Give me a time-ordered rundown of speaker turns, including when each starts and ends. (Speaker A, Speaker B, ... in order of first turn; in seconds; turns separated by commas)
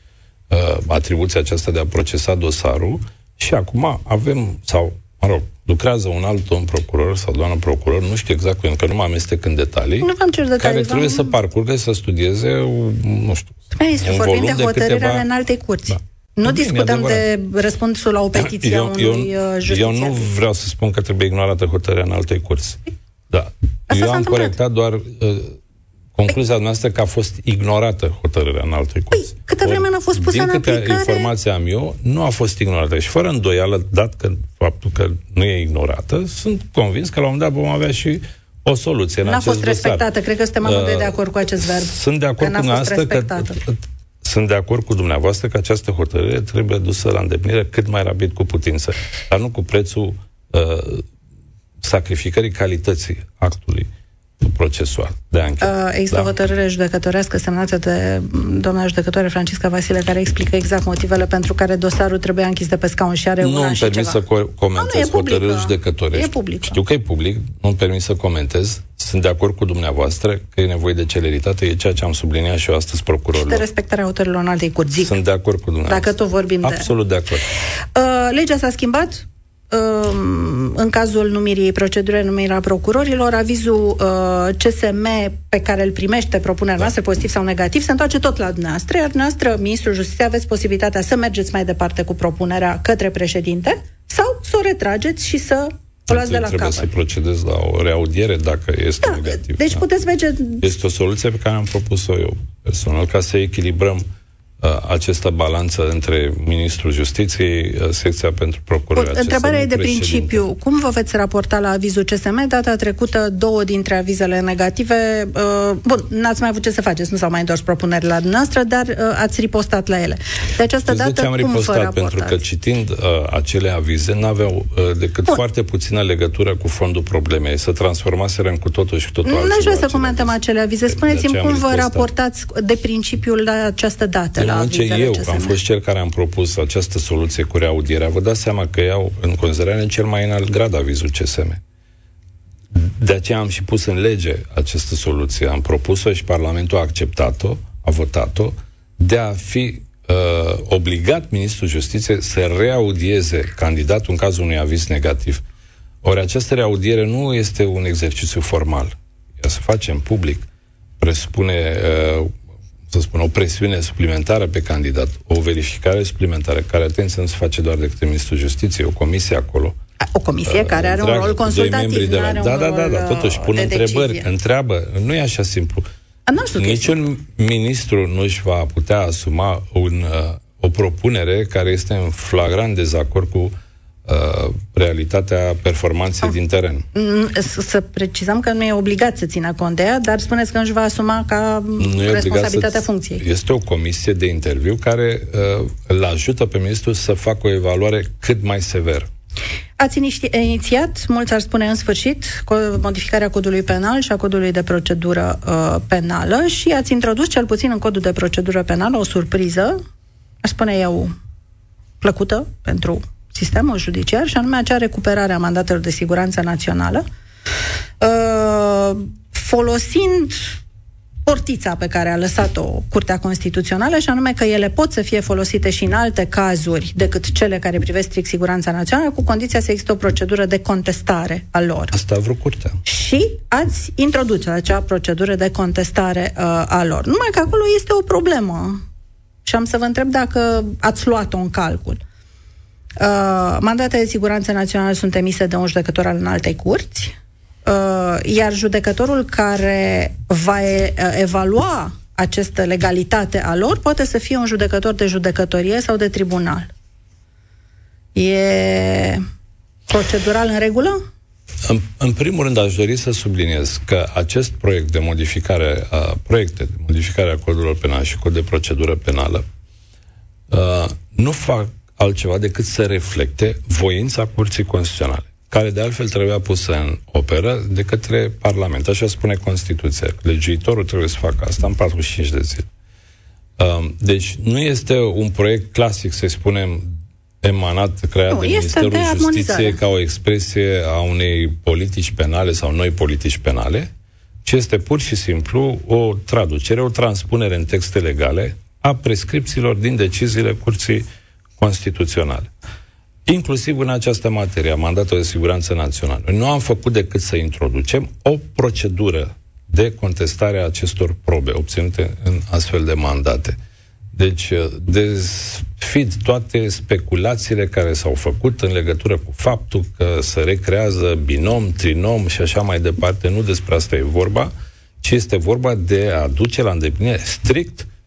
Speaker A: 0.5-15.3, Speaker B: 10.0-11.4, Speaker B: 13.7-20.3, Speaker A: 15.9-17.3, Speaker A: 18.4-25.6, Speaker B: 23.9-24.6, Speaker A: 26.1-40.1, Speaker B: 29.1-31.3, Speaker B: 39.2-43.6, Speaker A: 40.6-51.0, Speaker A: 51.8-56.3, Speaker B: 55.6-64.2, Speaker A: 63.4-73.7, Speaker B: 64.8-66.8, Speaker B: 73.4-75.1, Speaker A: 75.0-77.4, Speaker B: 75.9-76.9, Speaker B: 78.0-96.9, Speaker A: 96.1-99.8, Speaker B: 99.0-100.7, Speaker A: 100.6-104.0, Speaker A: 104.6-110.4, Speaker B: 108.9-122.4, Speaker A: 120.9-130.4, Speaker B: 129.2-135.6, Speaker A: 130.9-132.1, Speaker A: 134.4-141.6, Speaker A: 142.7-155.4, Speaker A: 156.0-160.5, Speaker A: 161.0-162.3, Speaker A: 162.9-169.8, Speaker B: 170.1-174.3, Speaker A: 170.4-175.9, Speaker B: 176.3-177.0, Speaker A: 176.6-183.5, Speaker A: 184.1-186.9, Speaker B: 186.9-193.2, Speaker A: 191.8-199.1, Speaker B: 199.8-209.8, Speaker B: 210.4-211.1, Speaker B: 212.0-217.1, Speaker B: 218.0-220.6, Speaker B: 221.3-231.9, Speaker A: 231.9-232.8, Speaker B: 232.8-238.8, Speaker B: 239.4-242.0, Speaker B: 243.0-247.1, Speaker B: 247.7-256.7, Speaker B: 258.1-259.2, Speaker B: 259.9-261.0, Speaker A: 261.6-269.4, Speaker A: 270.5-282.7, Speaker A: 283.6-293.9, Speaker B: 288.3-289.8, Speaker A: 294.4-301.1, Speaker A: 301.6-302.5, Speaker A: 303.3-313.6, Speaker A: 314.1-327.9